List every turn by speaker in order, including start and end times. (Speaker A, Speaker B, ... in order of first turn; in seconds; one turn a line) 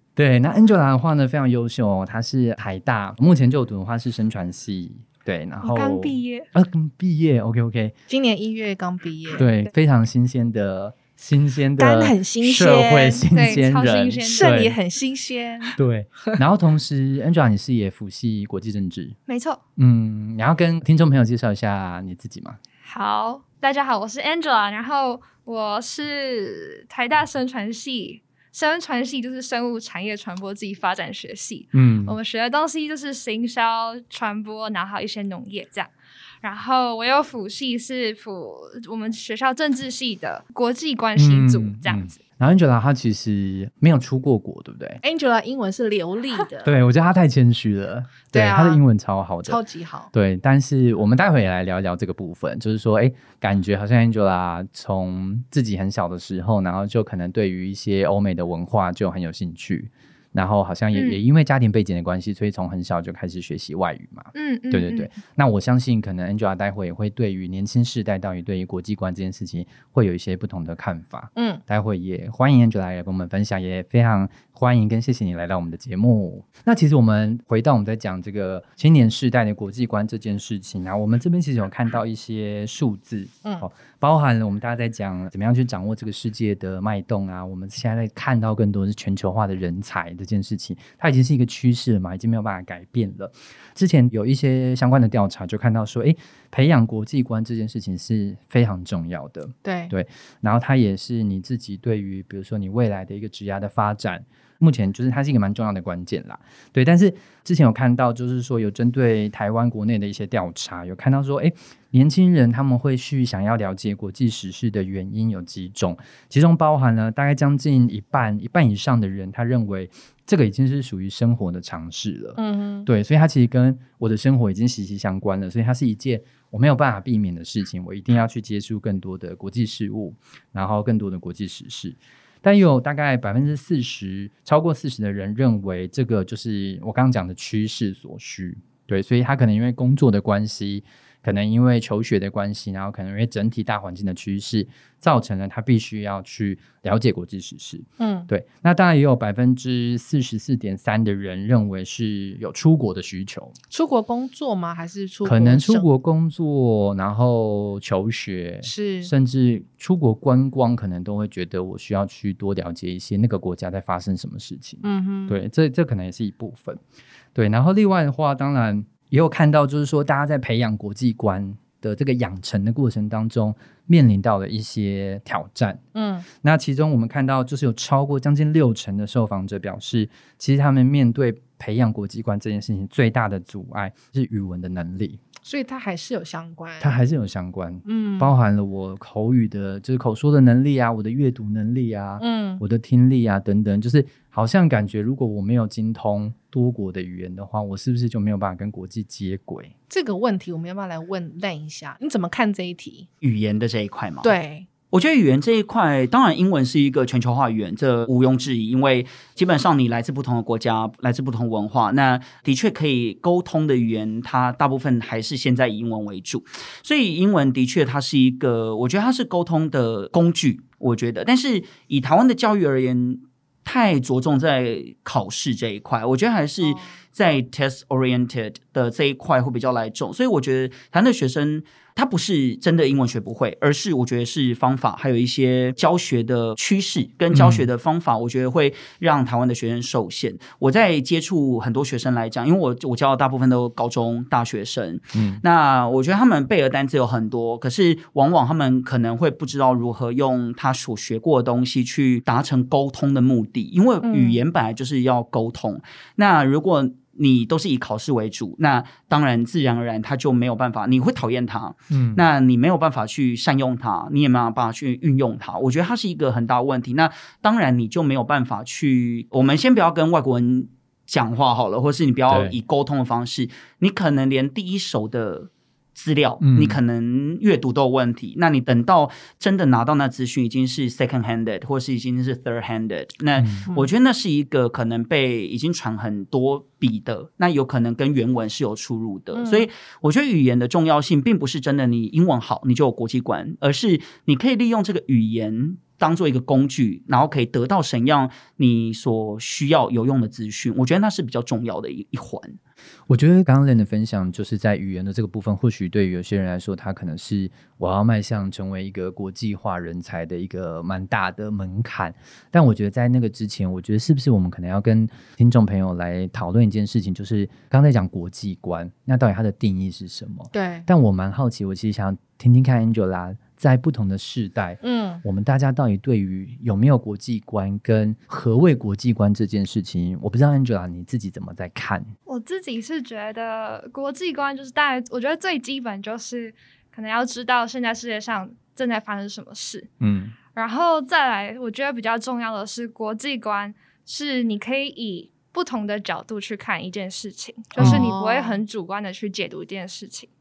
Speaker A: 0.1-7.9
Speaker B: 5.6-6.5
Speaker C: 8.1-9.5
Speaker A: 9.3-14.8
Speaker C: 11.8-13.3
Speaker B: 13.3-14.6
Speaker C: 14.3-15.7
Speaker A: 15.7-19.2
Speaker B: 19.3-19.6
Speaker A: 19.8-22.6
Speaker B: 22.8-42.1
Speaker A: 31.7-32.2
Speaker A: 41.1-45.0
Speaker C: 45.0-46.7
Speaker A: 46.6-49.6
Speaker C: 48.3-48.8
Speaker C: 49.4-50.1
Speaker A: 50.1-153.5
Speaker B: 64.3-65.1
Speaker C: 71.3-71.6
Speaker C: 99.6-99.9
Speaker C: 122.4-122.9
Speaker C: 148.0-148.3
Speaker C: 153.7-155.9
Speaker A: 155.2-166.8
Speaker C: 158.6-159.1
Speaker C: 164.8-165.4
Speaker A: 167.3-175.8
Speaker C: 175.9-176.2
Speaker A: 176.3-185.2
Speaker C: 185.4-187.0
Speaker A: 186.8-199.7
Speaker C: 187.8-188.3
Speaker C: 192.2-192.6
Speaker C: 199.9-203.1
Speaker D: 203.2-204.3
Speaker C: 204.2-204.7
Speaker D: 204.9-302.6
Speaker A: 237.3-237.7
Speaker A: 245.1-245.4
Speaker C: 254.0-254.4
Speaker A: 261.9-262.2
Speaker A: 272.3-272.6
Speaker A: 276.4-276.8
Speaker A: 283.4-283.6
Speaker C: 289.3-289.7
Speaker A: 303.1-332.1
Speaker C: 320.5-320.9
Speaker C: 324.8-325.2
Speaker B: 332.2-339.9
Speaker A: 340.0-340.3
Speaker B: 340.5-350.3
Speaker C: 347.8-348.6
Speaker A: 347.8-348.1